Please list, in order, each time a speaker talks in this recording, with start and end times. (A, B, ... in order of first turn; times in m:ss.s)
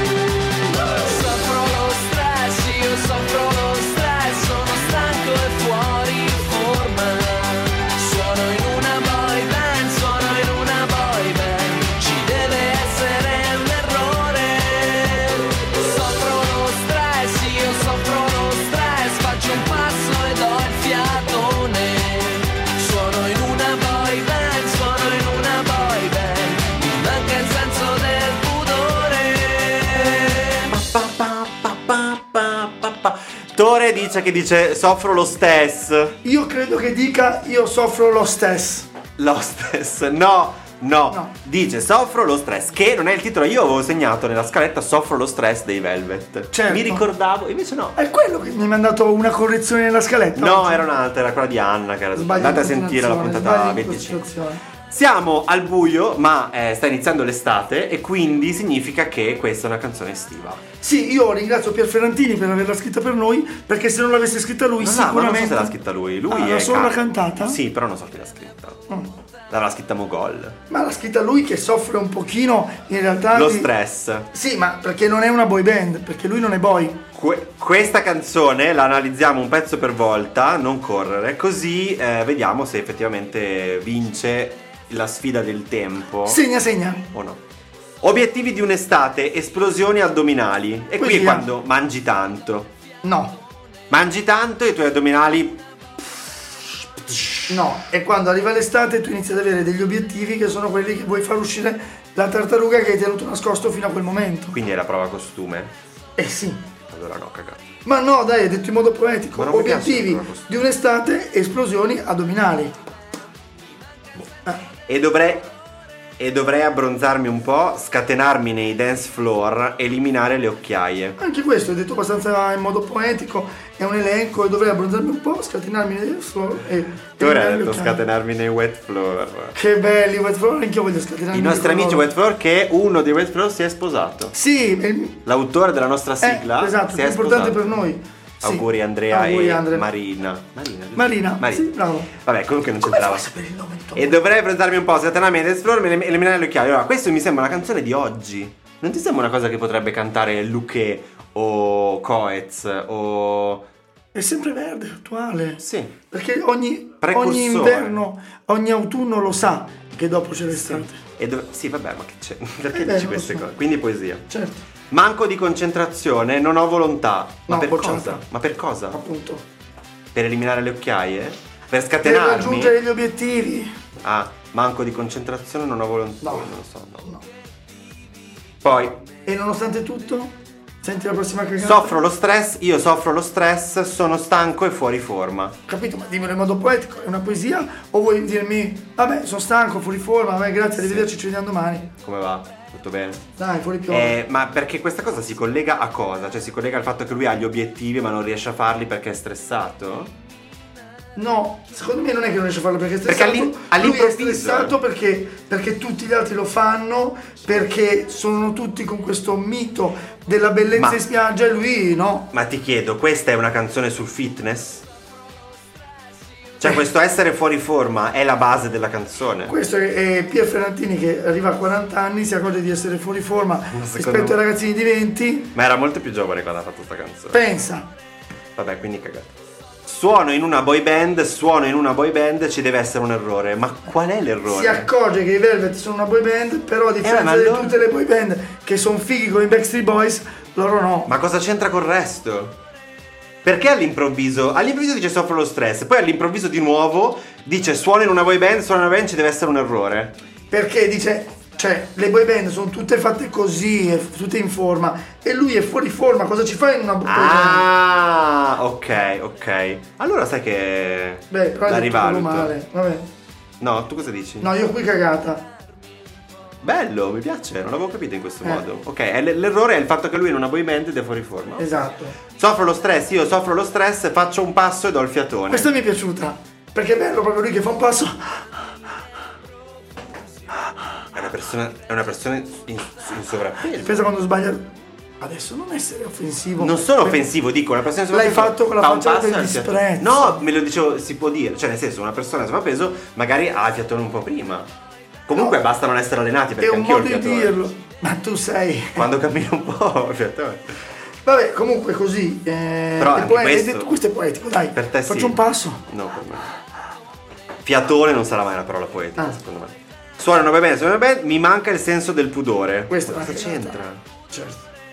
0:01.0-0:30.6 A
0:30.7-0:36.1 B
0:36.2-0:38.9 C
0:39.2-0:48.0 B
0:41.1-0:41.4 C
0:46.5-0:47.0 C
0:48.0-0:50.8 C
0:50.4-0:54.3 B
0:52.1-0:54.6 C
0:54.9-1:00.6 B
1:00.8-1:05.7 C
1:04.8-1:08.8 B
1:06.3-1:07.6 C
1:09.5-1:10.6 B
1:10.7-1:13.7 C
1:13.3-1:14.3 B
1:14.3-1:17.0 C
1:17.1-1:26.4 B
1:26.2-1:27.1 C
1:27.1-1:27.4 B
1:28.0-1:32.7 B
1:31.0-1:31.5 C
1:33.0-1:33.4 C
1:33.9-1:35.6 B
1:37.5-1:44.6 C
1:44.5-1:45.7 B
1:46.2-1:46.7 C
1:46.9-1:47.6 B
1:47.8-1:52.7 C
1:49.3-1:50.6 B
1:54.9-1:55.5 B
1:56.2-2:01.2 B
2:01.2-2:08.0 C
2:07.2-2:09.6 B
2:09.5-2:12.1 C
2:11.3-2:14.3 B
2:14.3-2:15.2 C
2:15.2-2:17.7 B
2:16.2-2:19.8 C
2:18.4-2:23.3 B
2:21.0-2:22.1 C
2:22.8-2:24.2 C
2:23.9-2:33.6 B
2:34.1-2:41.0 C
2:35.6-2:35.9 B
2:37.0-2:38.0 B
2:40.5-2:44.2 B
2:42.7-2:43.5 C
2:44.3-2:44.6 C
2:44.9-2:49.0 B
2:47.5-2:48.2 C
2:48.9-2:49.4 C
2:50.1-2:52.8 B
2:52.0-2:53.7 C
2:54.0-2:57.1 B
2:56.2-2:56.5 C
2:58.6-2:59.0 B
2:59.2-3:02.0 C
3:01.6-3:05.6 B
3:05.7-3:11.9 C
3:10.8-3:11.1 B
3:12.0-3:13.2 B
3:13.4-3:14.2 C
3:13.9-3:20.1 B
3:21.2-3:32.3 C
3:23.0-3:24.8 B
3:30.7-3:31.0 B
3:32.3-3:34.8 B
3:36.6-3:39.5 B
3:39.5-3:45.5 C
3:43.7-3:44.4 B
3:45.5-3:47.4 B
3:47.3-3:47.9 C
3:48.6-3:49.3 B
3:49.8-3:54.9 B
3:54.5-4:01.1 C
3:57.0-3:57.8 B
4:01.0-4:02.6 B
4:03.4-4:10.1 B
4:10.5-4:17.7 C
4:17.0-4:22.6 B
4:21.3-4:23.1 C
4:23.6-4:24.5 B
4:24.4-4:25.4 C
4:26.6-4:35.7 B
4:31.6-4:32.2 C
4:35.5-4:38.4 C
4:41.1-4:44.0 B
4:43.7-4:47.2 C
4:46.6-4:54.7 B
4:48.1-4:50.4 C
4:55.3-4:57.6 B
4:56.6-4:59.1 C
4:58.9-5:00.8 B
5:01.2-5:05.8 C
5:03.0-5:03.9 B
5:04.7-5:06.5 B
5:07.6-5:14.0 B
5:12.9-5:13.8 C
5:14.3-5:14.6 C